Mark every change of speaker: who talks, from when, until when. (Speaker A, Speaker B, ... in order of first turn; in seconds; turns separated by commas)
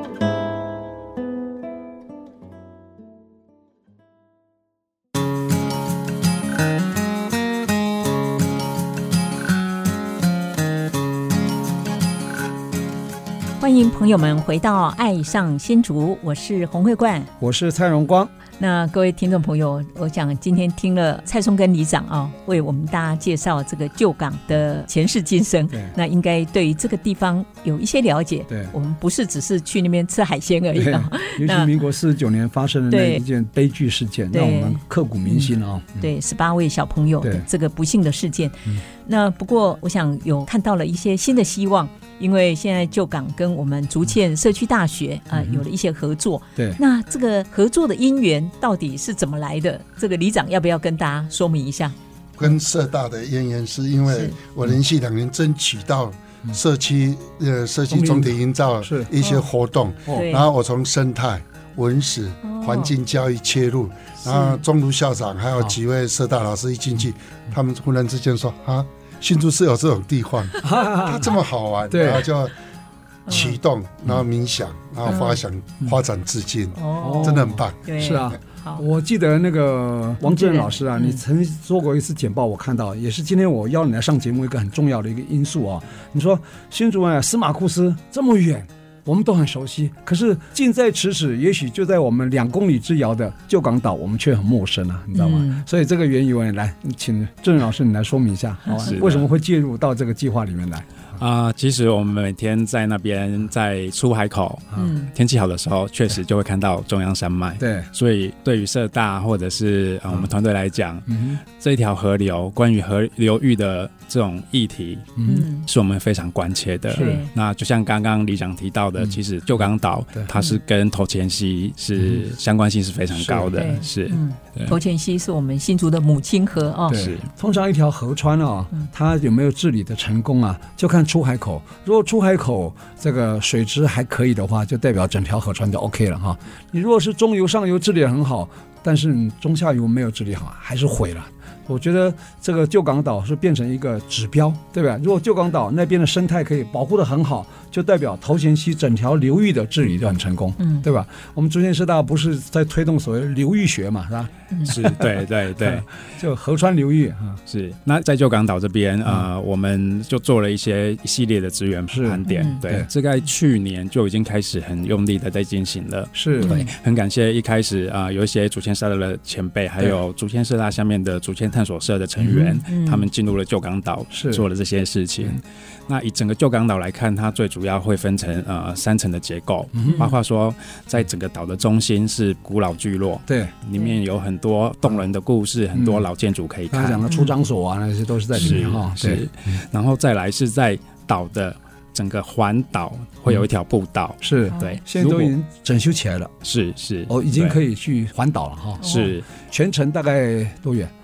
Speaker A: 13.6-17.3, Speaker B: 17.4-18.3, Speaker A: 18.6-31.8, Speaker B: 28.5-28.7, Speaker B: 30.8-36.1, Speaker A: 32.9-33.2, Speaker A: 34.3-51.9, Speaker B: 45.4-45.6, Speaker C: 52.4-72.5, Speaker A: 54.1-54.4, Speaker B: 57.9-58.3, Speaker B: 58.8-59.1, Speaker A: 60.1-60.5, Speaker A: 62.4-62.9, Speaker A: 64.2-64.6, Speaker B: 70.6-71.3, Speaker B: 71.9-72.3, Speaker A: 73.3-73.5, Speaker C: 73.3-77.9, Speaker A: 75.0-75.4, Speaker A: 76.8-78.8, Speaker B: 77.0-100.9, Speaker A: 80.2-81.2, Speaker A: 95.1-95.6, Speaker A: 98.7-98.9, Speaker D: 98.8-99.3, Speaker D: 101.2-124.7, Speaker A: 104.8-105.1, Speaker B: 107.6-107.9, Speaker B: 111.1-111.4, Speaker B: 115.2-115.4, Speaker A: 115.2-115.7, Speaker B: 116.9-117.2, Speaker A: 116.9-117.3, Speaker B: 123.2-123.7, Speaker A: 123.5-127.1, Speaker B: 126.9-157.4, Speaker D: 126.9-127.2, Speaker A: 150.6-150.8, Speaker D: 154.7-155.9, Speaker D: 157.5-187.0, Speaker B: 161.9-162.9, Speaker A: 162.3-162.6, Speaker B: 166.1-166.5, Speaker A: 166.4-166.7, Speaker B: 172.2-172.5, Speaker A: 172.7-173.0, Speaker B: 174.1-174.4, Speaker B: 179.7-180.1, Speaker A: 179.8-180.1, Speaker B: 183.3-183.5, Speaker B: 185.7-186.0, Speaker B: 186.7-189.6, Speaker A: 187.1-187.3, Speaker D: 188.3-195.3, Speaker B: 194.2-196.3, Speaker A: 194.5-194.8, Speaker D: 196.4-197.6, Speaker B: 197.1-200.9, Speaker A: 198.8-199.1, Speaker D: 198.8-199.3